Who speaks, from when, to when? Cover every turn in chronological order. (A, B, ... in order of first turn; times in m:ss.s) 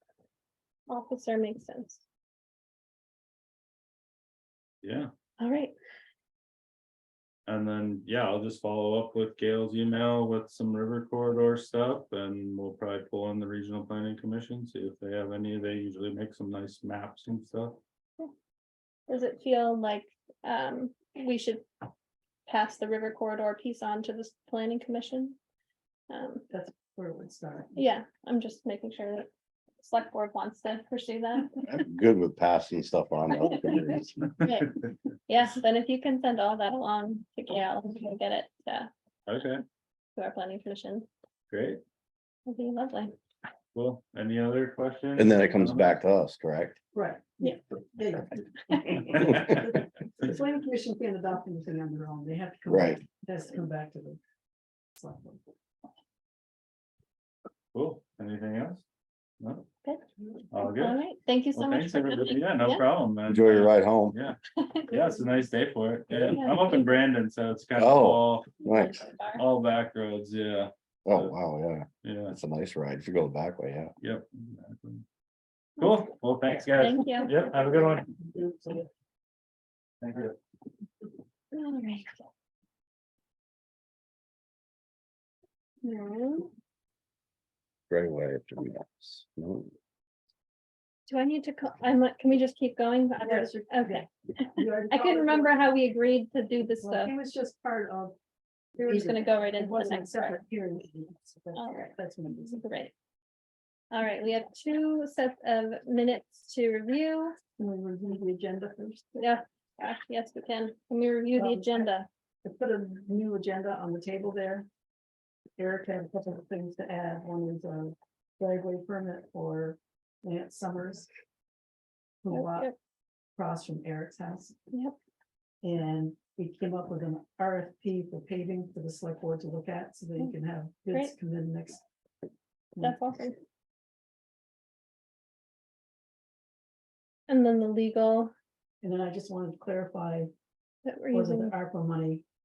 0:00.9-0:02.0 A
0:04.8-0:05.1 B
0:05.4-0:05.7 A
0:07.5-0:17.8 B
0:19.1-0:21.6 A
0:22.5-0:25.4 A
0:26.1-0:26.4 A
0:26.5-0:27.9 C
0:27.8-0:31.6 A
0:31.7-0:34.1 D
0:34.4-0:34.7 A
0:35.3-0:38.9 A
0:39.3-0:39.6 B
0:40.2-0:41.1 A
0:41.5-0:41.8 B
0:42.4-0:43.1 A
0:43.7-0:46.0 B
0:45.2-0:46.8 D
0:46.9-0:54.2 C
0:52.7-0:53.0 D
0:55.0-0:55.4 C
0:57.7-0:58.8 B
0:59.4-0:59.7 B
1:00.5-1:01.0 B
1:00.6-1:02.8 A
1:01.5-1:04.4 B
1:03.3-1:04.2 D
1:04.6-1:05.0 A
1:04.9-1:08.5 B
1:06.3-1:07.0 A
1:07.8-1:09.0 D
1:08.6-1:09.4 A
1:09.4-1:11.3 B
1:11.0-1:13.9 D
1:12.0-1:12.4 B
1:14.0-1:15.0 B
1:15.8-1:18.1 B
1:16.7-1:17.3 A
1:20.0-1:20.3 B
1:21.5-1:22.2 A
1:25.8-1:26.5 A
1:27.9-1:29.7 D
1:31.1-1:37.1 A
1:33.2-1:35.7 C
1:36.8-1:38.2 C
1:38.7-1:42.6 C
1:38.8-1:40.4 A
1:41.5-1:42.9 A
1:43.9-1:47.4 A
1:47.6-1:49.2 C
1:49.2-1:52.1 A
1:51.3-1:54.7 C
1:55.6-2:01.1 C
2:02.2-2:02.7 C
2:02.3-2:02.7 A
2:03.4-2:04.6 C
2:04.7-2:05.0 A
2:05.6-2:11.8 C
2:12.8-2:13.4 A
2:17.3-2:18.3 A
2:18.8-2:20.3 C
2:20.8-2:21.6 A
2:21.1-2:22.2 C